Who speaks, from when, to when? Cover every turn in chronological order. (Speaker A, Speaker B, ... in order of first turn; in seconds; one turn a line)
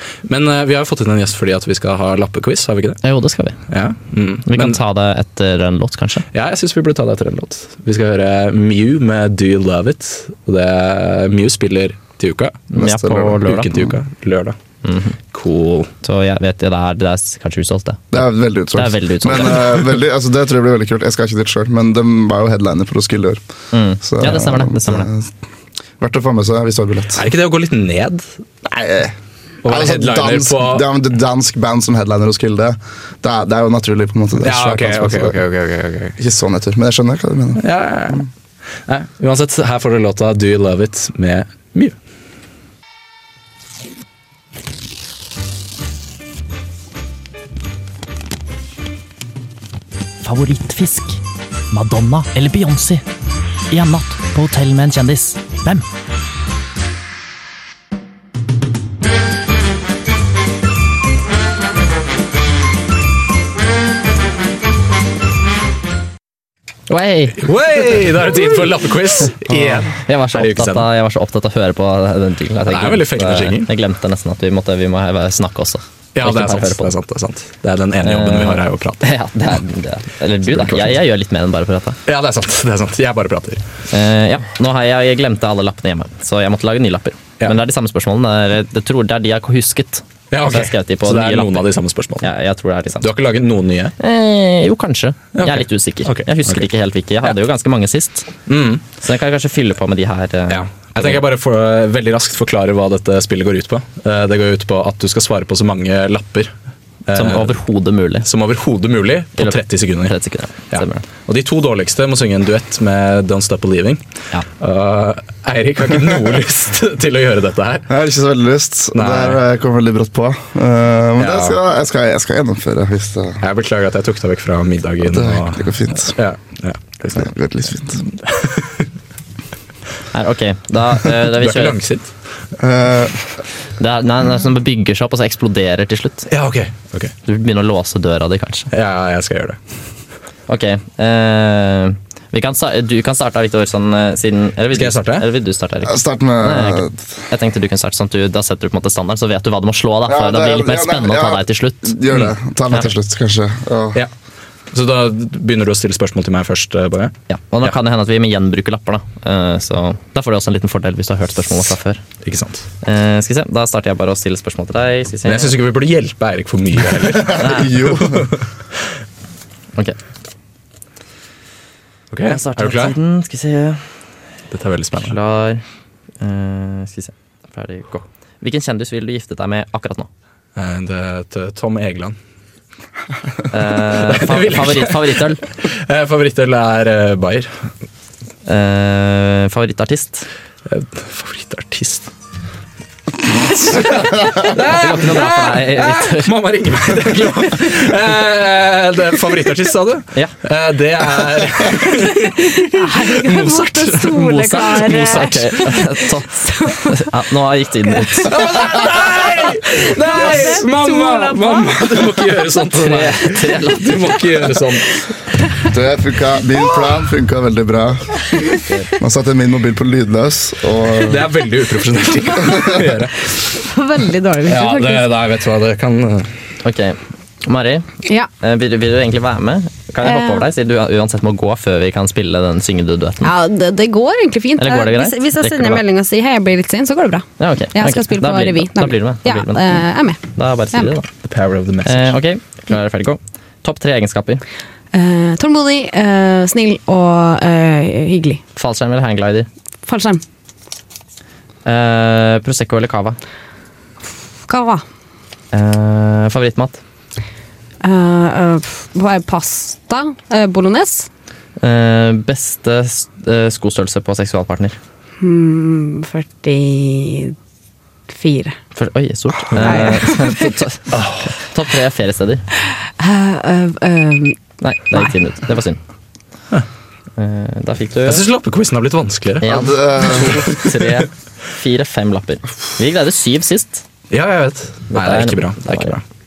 Speaker A: 0.3-3.0
Speaker B: 3.0-3.6
Speaker A: 3.7-4.8
Speaker B: 4.5-6.3
Speaker A: 6.3-12.7
Speaker B: 12.7-13.9
Speaker C: 12.8-13.4
Speaker A: 13.4-14.6
Speaker B: 14.8-15.2
Speaker A: 15.3-15.9
Speaker B: 16.0-19.9
Speaker C: 18.1-23.4
Speaker B: 23.7-25.1
Speaker C: 24.0-25.3
Speaker C: 26.0-27.3
Speaker A: 27.1-28.3
Speaker C: 28.6-29.1
Speaker A: 29.6-30.9
Speaker C: 29.6-35.4
Speaker A: 34.4-36.2
Speaker C: 36.2-37.6
Speaker A: 37.6-38.3
Speaker A: 38.9-42.0
Speaker B: 50.2-53.1
Speaker B: 53.7-55.9
Speaker B: 66.9-67.5
Speaker A: 67.4-70.9
Speaker B: 69.5-76.9
Speaker A: 72.7-73.7
Speaker A: 76.2-79.1
Speaker B: 78.0-82.0
Speaker A: 80.5-81.0
Speaker A: 82.1-83.6
Speaker B: 83.9-93.1
Speaker A: 90.3-92.3
Speaker A: 93.0-94.0
Speaker B: 94.0-98.3
Speaker A: 95.3-96.7
Speaker A: 98.5-98.8
Speaker B: 99.0-101.2
Speaker A: 100.5-106.5
Speaker A: 107.1-107.5
Speaker B: 107.1-108.3
Speaker A: 108.3-110.2
Speaker B: 109.4-111.1
Speaker A: 110.7-114.0
Speaker A: 114.6-117.9
Speaker C: 117.9-123.4
Speaker A: 118.9-119.4
Speaker A: 121.2-121.6
Speaker A: 123.4-127.3
Speaker C: 125.0-126.1
Speaker C: 127.1-128.0
Speaker A: 128.1-128.9
Speaker B: 130.1-131.8
Speaker A: 131.2-132.1
Speaker C: 132.6-133.2
Speaker B: 133.8-136.3
Speaker A: 136.3-137.1
Speaker B: 137.2-138.7
Speaker A: 138.7-139.6
Speaker B: 140.5-152.0
Speaker A: 144.7-145.3
Speaker C: 145.8-147.0
Speaker C: 150.1-154.0
Speaker A: 154.7-157.2
Speaker B: 157.3-162.0
Speaker A: 162.2-162.7
Speaker B: 162.8-165.6
Speaker A: 165.3-168.4
Speaker C: 167.1-168.3
Speaker B: 167.3-167.8
Speaker A: 172.1-173.0
Speaker B: 172.3-173.9
Speaker A: 174.5-175.2
Speaker B: 174.9-175.6
Speaker B: 176.2-180.1
Speaker A: 180.6-182.2
Speaker B: 183.5-185.4
Speaker A: 183.9-187.5
Speaker B: 188.4-190.3
Speaker A: 190.7-192.1
Speaker A: 193.3-205.5
Speaker B: 194.5-196.3
Speaker D: 202.0-207.1
Speaker B: 204.1-208.4
Speaker D: 207.9-208.3
Speaker A: 208.2-215.0
Speaker D: 210.1-212.3
Speaker B: 212.7-214.3
Speaker C: 215.7-218.2
Speaker C: 219.0-221.4
Speaker A: 221.0-223.3
Speaker D: 223.6-225.1
Speaker A: 224.5-226.3
Speaker B: 226.6-233.3
Speaker D: 230.0-230.5
Speaker D: 233.2-240.2
Speaker B: 234.6-235.8
Speaker B: 237.4-241.1
Speaker A: 241.2-242.2
Speaker B: 241.8-244.4
Speaker D: 244.9-248.4
Speaker B: 248.6-249.5
Speaker D: 249.8-250.2
Speaker B: 251.7-253.2
Speaker D: 254.5-254.8
Speaker B: 255.5-256.8
Speaker D: 257.8-261.1
Speaker B: 261.6-264.8
Speaker D: 265.2-267.4
Speaker D: 268.1-268.6
Speaker B: 268.8-272.4
Speaker A: 269.6-269.9
Speaker D: 269.6-270.6
Speaker A: 270.9-271.3
Speaker D: 273.0-274.4
Speaker B: 274.6-275.8
Speaker B: 277.2-278.3
Speaker A: 278.1-281.1
Speaker B: 279.4-283.9
Speaker C: 279.5-280.6
Speaker A: 284.1-286.0
Speaker B: 284.9-286.0